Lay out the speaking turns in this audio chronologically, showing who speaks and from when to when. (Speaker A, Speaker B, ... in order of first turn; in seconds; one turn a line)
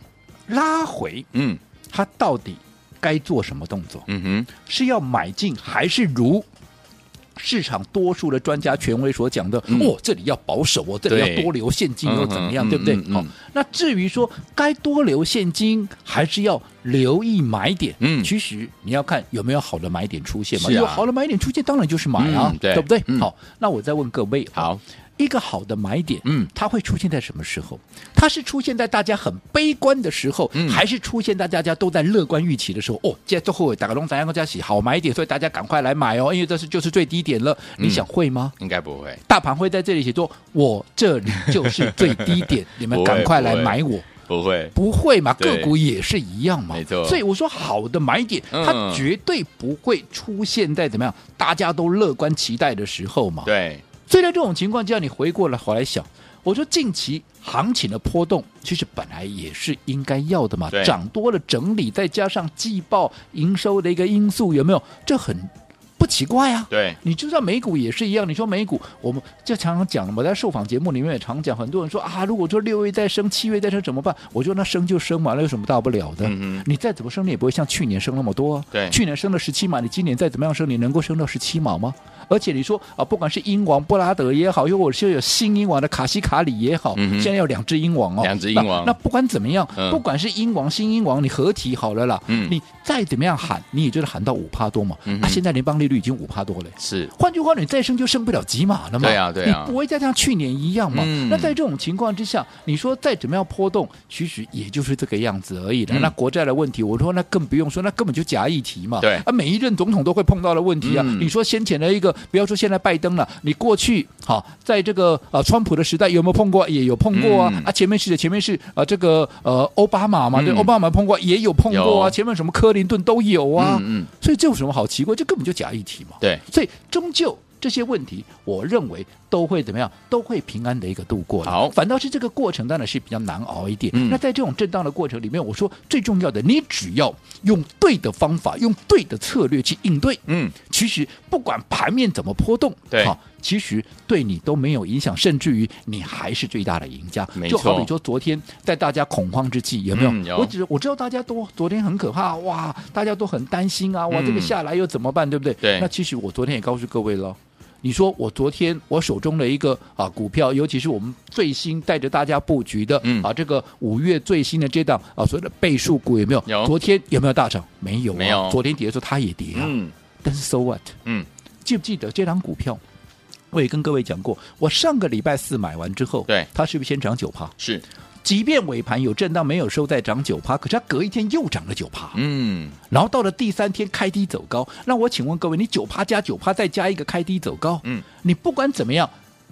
Speaker A: 0.5-1.3
Speaker B: 1.3-1.6
Speaker A: 1.9-4.1
Speaker B: 4.1-4.5
Speaker A: 4.6-6.5
Speaker A: 7.4-38.6
Speaker B: 9.7-9.9
Speaker B: 11.1-11.5
Speaker B: 12.1-13.3
Speaker B: 18.0-18.3
Speaker B: 20.5-21.1
Speaker B: 22.2-23.3
Speaker B: 24.6-24.8
Speaker B: 26.2-26.5
Speaker B: 30.5-30.8
Speaker B: 37.8-38.1
Speaker B: 38.6-39.2
Speaker A: 39.3-44.1
Speaker B: 41.6-44.8
Speaker A: 44.7-53.5
Speaker B: 45.4-45.8
Speaker B: 46.7-47.2
Speaker B: 48.5-49.1
Speaker B: 53.5-53.8
Speaker A: 54.0-170.9
Speaker B: 60.7-61.0
Speaker B: 66.7-67.0
Speaker B: 76.2-76.7
Speaker B: 78.7-79.0
Speaker B: 87.0-87.3
Speaker B: 88.2-89.0
Speaker B: 89.8-90.0
Speaker B: 92.3-92.6
Speaker B: 95.1-95.4
Speaker B: 96.8-97.1
Speaker B: 99.0-99.8
Speaker B: 100.9-101.6
Speaker B: 105.9-106.1
Speaker B: 109.0-109.2
Speaker B: 110.8-111.3
Speaker B: 117.1-117.7
Speaker B: 120.3-120.7
Speaker B: 121.7-122.2
Speaker B: 123.6-124.1
Speaker B: 131.4-131.8
Speaker B: 133.9-134.2
Speaker B: 140.3-140.6
Speaker B: 147.3-147.9
Speaker B: 149.9-150.5
Speaker B: 154.1-154.6
Speaker B: 155.6-155.9
Speaker B: 163.0-163.3
Speaker B: 166.5-166.7
Speaker B: 168.1-168.6
Speaker B: 169.5-169.9
Speaker A: 171.7-172.8
Speaker A: 173.5-177.6
Speaker B: 177.6-177.8
Speaker A: 178.2-182.2
Speaker B: 182.1-182.8
Speaker A: 182.9-189.1